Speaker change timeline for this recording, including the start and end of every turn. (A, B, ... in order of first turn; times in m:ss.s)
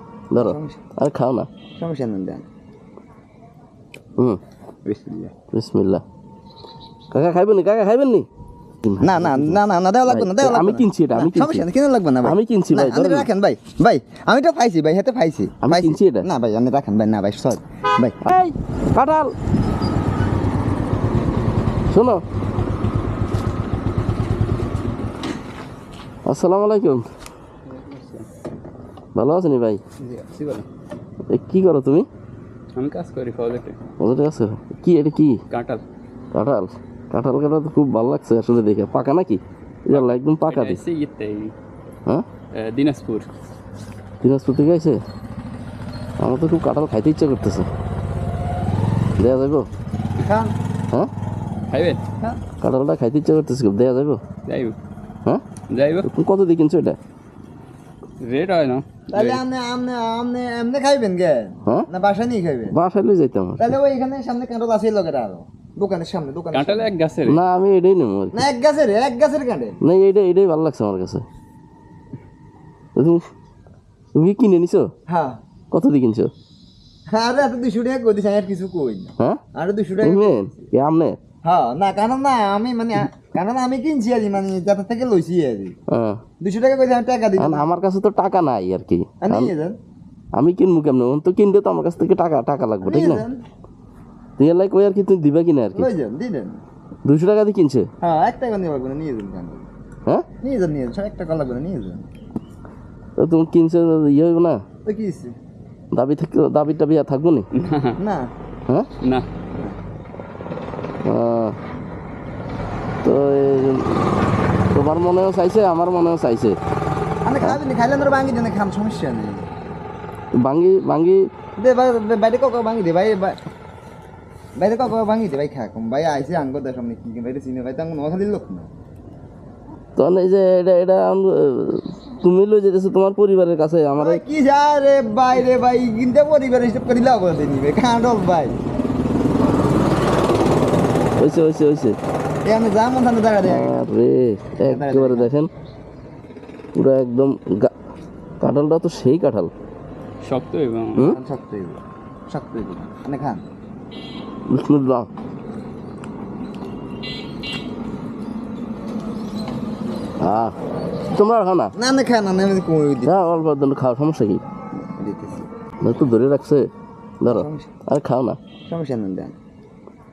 0:00.3-0:01.5 A
0:00.4-0:00.8 B
0:01.8-0:02.4 B
0:04.8-0:05.3 B
0:05.5-0:06.0 A
0:07.1-0:08.3 A
0:08.8-0:11.7 A
0:09.0-0:18.2 B
0:12.2-0:13.3 A
0:15.6-0:16.3 A
0:18.2-0:19.3 A
0:21.9-0:22.2 A
0:26.2-0:27.1 A
0:27.7-0:28.3 C
0:29.1-0:29.8 A
0:30.0-0:30.6 C
0:31.3-0:32.1 A
0:32.8-0:33.8 C
0:34.0-0:35.4 A
0:35.5-0:35.8 C
0:36.3-0:40.8 A
0:39.9-0:41.5 C
0:42.5-0:43.3 C
0:44.2-0:45.0 A
0:46.2-0:47.7 A
0:49.2-0:49.7 A
0:50.2-0:50.5 B
0:51.7-0:52.0 C
0:52.6-0:54.2 A
0:54.5-0:54.8 C
0:55.7-0:56.1 C
0:56.0-0:57.0 A
0:58.2-0:59.4 C
0:59.1-1:02.7 B
1:02.7-1:03.7 A
1:03.6-1:06.9 B
1:06.5-1:07.4 C
1:07.2-1:08.4 A
1:08.3-1:09.8 B
1:09.8-1:11.2 A
1:13.0-1:13.3 A
1:14.1-1:14.9 A
1:15.1-1:15.4 B
1:15.7-1:16.3 A
1:17.1-1:20.6 B
1:20.0-1:21.2 A
1:21.4-1:25.7 B
1:25.9-1:26.2 A
1:26.4-1:27.7 B
1:27.4-1:29.5 A
1:29.2-1:29.8 B
1:30.3-1:33.2 A
1:32.8-1:33.4 B
1:34.4-1:35.9 A
1:35.7-1:36.6 B
1:37.0-1:37.9 A
1:38.0-1:39.7 B
1:40.4-1:42.1 B
1:43.2-1:44.6 A
1:44.8-1:45.3 B
1:45.9-1:47.5 A
1:47.5-1:48.0 C
1:48.0-1:48.3 B
1:49.0-1:49.3 C
1:51.0-1:51.6 A
1:53.0-1:54.0 A
1:54.7-1:56.6 A
1:57.2-1:59.5 B
2:00.4-2:01.2 A
2:01.6-2:03.4 B
2:04.6-2:08.7 B
2:10.0-2:14.2 A
2:14.0-2:18.6 B
2:21.2-2:22.0 A
2:22.4-2:23.8 B
2:23.4-2:25.5 A
2:24.6-2:25.3 B
2:26.8-2:27.7 A
2:28.4-2:29.5 A
2:30.2-2:31.1 C
2:31.0-2:33.4 B
2:34.5-2:35.1 A
2:40.2-2:40.5 A
2:41.1-2:41.7 A
2:41.8-2:43.1 B
2:43.0-2:44.4 A
2:44.8-2:45.5 B
2:45.8-2:46.7 A
2:47.2-2:48.4 A
2:47.2-2:47.7 B
2:48.7-2:49.3 B